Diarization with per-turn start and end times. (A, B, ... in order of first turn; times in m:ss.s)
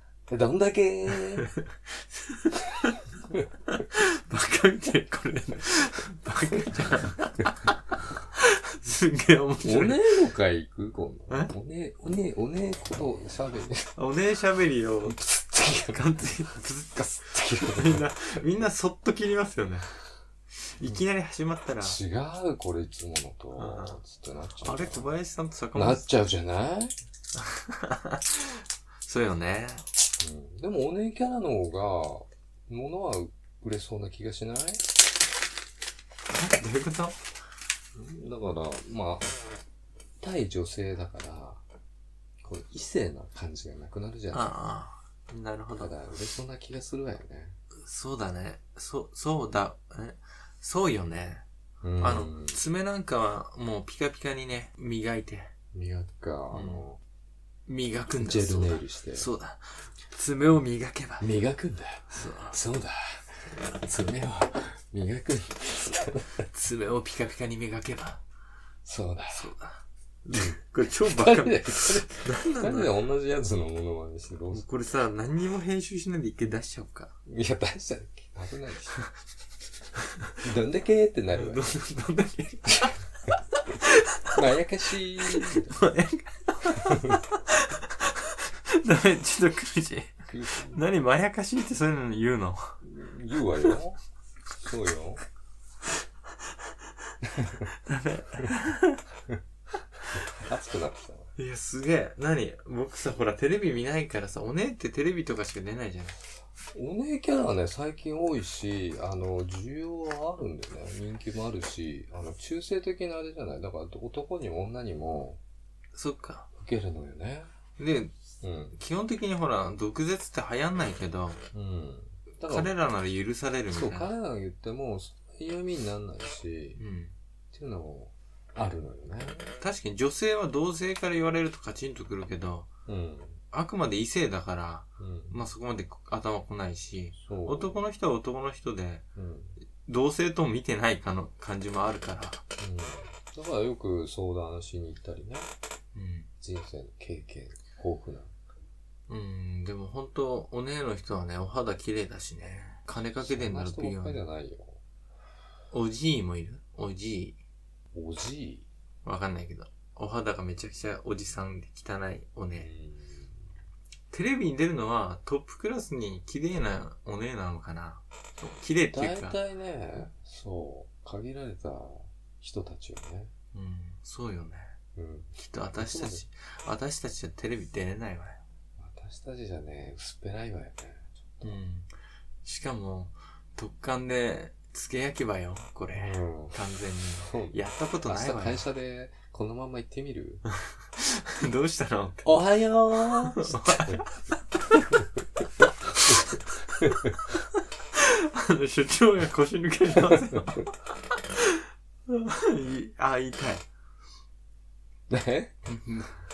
0:00.3-0:01.5 A
0:01.6-0:03.0 B
0:03.7-0:10.2 B
0:09.6-0:13.9 A
0:14.0-0:19.9 B
0:15.0-0:16.2 A
0:17.2-0:18.4 A
0:20.6-0:22.0 B
0:21.8-0:25.2 A
0:23.6-0:24.0 B
0:24.6-0:26.1 B
0:25.8-0:26.9 A
0:27.4-0:29.8 B
0:30.2-0:34.8 A
0:36.3-0:37.2 B
0:37.9-0:39.4 A
0:40.2-0:41.6 A
0:42.4-0:44.5 A
0:44.3-0:46.0 B
0:45.8-0:47.6 A
0:47.8-0:51.4 B
0:51.8-0:52.6 A
0:52.0-0:55.5 B
0:55.7-0:57.0 A
0:56.5-0:56.9 B
0:57.7-1:01.3 B
0:58.1-0:59.3 A
1:01.2-1:06.4 A
1:02.1-1:02.6 B
1:06.5-1:08.2 B
1:08.8-1:09.5 A
1:09.3-1:12.9 B
1:10.3-1:14.6 A
1:14.5-1:17.1 B
1:17.3-1:19.0 A
1:20.4-1:21.7 A
1:21.4-1:23.0 B
1:23.5-1:24.4 B
1:24.3-1:25.8 A
1:25.2-1:32.8 B
1:26.8-1:27.2 A
1:30.3-1:30.8 A
1:32.8-1:34.0 A
1:34.6-1:35.2 A
1:37.2-1:37.7 A
1:37.6-1:39.0 B
1:40.2-1:41.3 A
1:41.4-1:46.2 B
1:46.7-1:55.4 A
1:55.9-1:56.5 B
1:56.6-1:57.5 A
1:57.8-1:58.2 B
1:58.4-1:58.8 A
1:58.8-2:01.4 B
2:01.5-2:02.7 A
2:02.4-2:04.1 B
2:03.7-2:06.8 A
2:06.8-2:07.2 B
2:07.5-2:09.5 A
2:09.6-2:12.7 B
2:12.9-2:13.4 A
2:13.5-2:19.0 B
2:15.0-2:15.4 A
2:17.2-2:17.8 A
2:19.2-2:19.6 A
2:19.8-2:22.4 B
2:22.6-2:25.5 A
2:25.9-2:26.3 B
2:26.4-2:28.3 A
2:29.1-2:34.2 B
2:33.2-2:34.8 A
2:35.7-2:37.4 B
2:37.9-2:38.7 A
2:39.0-2:42.7 B
2:42.6-2:43.5 A
2:44.1-2:49.4 B
2:48.9-2:53.3 A
2:53.5-2:54.8 B
2:55.0-2:56.2 A
2:55.4-2:58.4 B
2:58.8-3:01.6 A
3:01.4-3:01.9 B
3:02.4-3:08.6 B
3:05.9-3:06.6 A
3:07.2-3:10.4 A
3:10.9-3:15.0 B
3:12.2-3:14.1 A
3:15.9-3:23.6 B
3:16.8-3:17.1 A
3:25.1-3:25.6 A
3:25.7-3:26.2 B